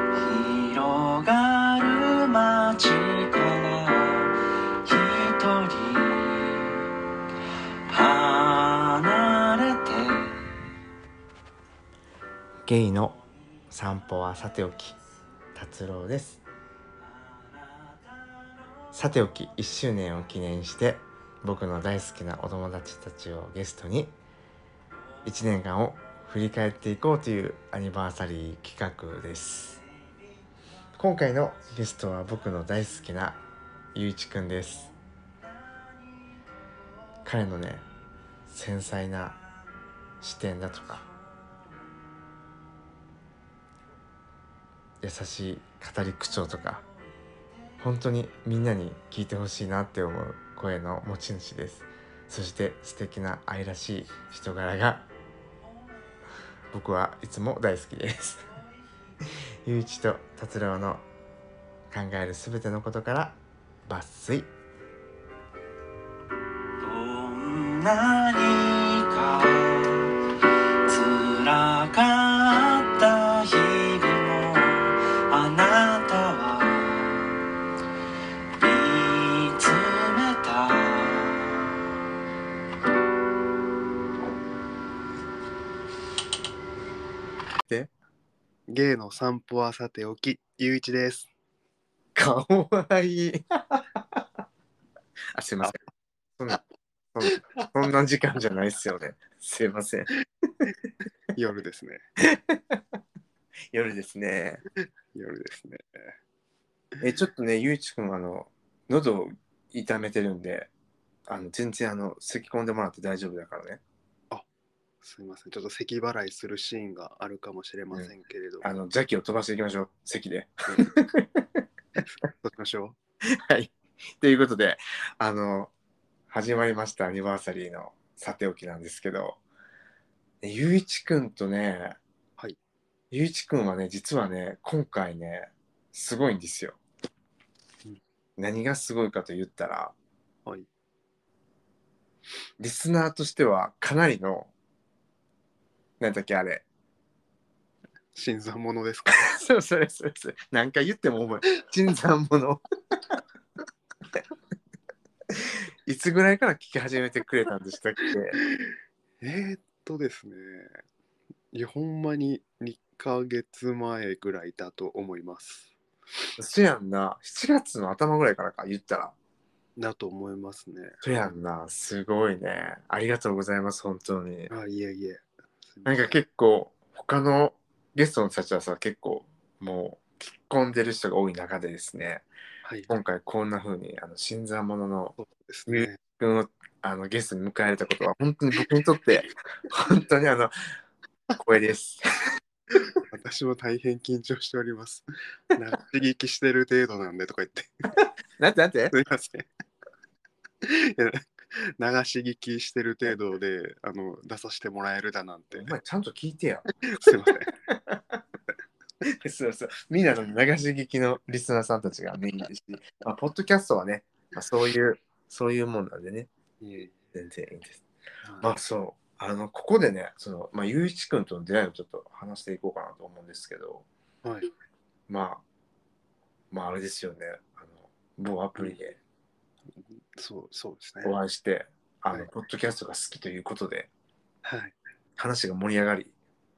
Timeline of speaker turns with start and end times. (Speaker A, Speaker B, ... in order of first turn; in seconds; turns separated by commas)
Speaker A: 0.1-6.9, Speaker A: 7.9-10.4, Speaker B: 12.7-13.2, Speaker B: 13.7-14.9, Speaker B: 15.5-16.4, Speaker A: 17.1-18.5, Speaker B: 18.9-24.1, Speaker B: 25.2-29.8, Speaker B: 31.0-33.4, Speaker B: 33.9-34.9, Speaker B: 37.2-37.8, Speaker B: 38.5-39.4, Speaker B: 40.2-41.0, Speaker B: 45.0-46.8, Speaker B: 47.8-55.0, Speaker B: 56.7-58.5, Speaker B: 59.6-61.0, Speaker B: 61.9-64.5, Speaker A: 66.8-70.2, Speaker A: 70.8-77.4, Speaker A: 78.6-81.7, Speaker C: 88.7-91.3, Speaker B: 92.1-94.2, Speaker B: 95.3-95.8, Speaker B: 97.1-100.1, Speaker C: 97.2-97.7, Speaker C: 101.3-102.0, Speaker B: 102.3-102.8, Speaker B: 103.7-104.6, Speaker C: 105.1-106.1, Speaker B: 107.0-110.7, Speaker B: 111.3-113.8, Speaker C: 115.0-118.7, Speaker B: 118.6-121.5, Speaker C: 122.0-123.0, Speaker B: 123.5-125.7, Speaker B: 126.3-129.4, Speaker B: 130.4-132.0, Speaker B: 133.1-136.8, Speaker B: 138.4-139.9, Speaker B: 142.6-144.5, Speaker B: 146.0-146.6, Speaker C: 148.1-149.3, Speaker B: 149.1-152.6, Speaker B: 155.8-158.4, Speaker C: 158.5-160.7, Speaker C: 161.5-165.7, Speaker B: 166.4-169.1, Speaker C: 169.8-171.0, Speaker B: 171.0-174.5, Speaker C: 174.5-176.1, Speaker B: 175.8-182.2, Speaker C: 182.6-182.9, Speaker B: 182.9-185.2, Speaker C: 185.2-186.0, Speaker B: 185.7-190.5, Speaker B: 191.4-192.4, Speaker C: 193.0-197.9, Speaker B: 198.4-198.9, Speaker C: 198.9-199.5, Speaker C: 200.6-205.7, Speaker B: 205.5-208.2, Speaker C: 206.8-207.5, Speaker B: 209.0-216.3, Speaker C: 216.6-217.0, Speaker B: 217.1-217.8, Speaker C: 218.2-218.5, Speaker B: 218.4-223.8, Speaker B: 225.1-225.4, Speaker B: 226.5-229.0, Speaker C: 229.7-231.2, Speaker B: 231.0-233.9, Speaker C: 234.4-234.7, Speaker B: 235.2-236.1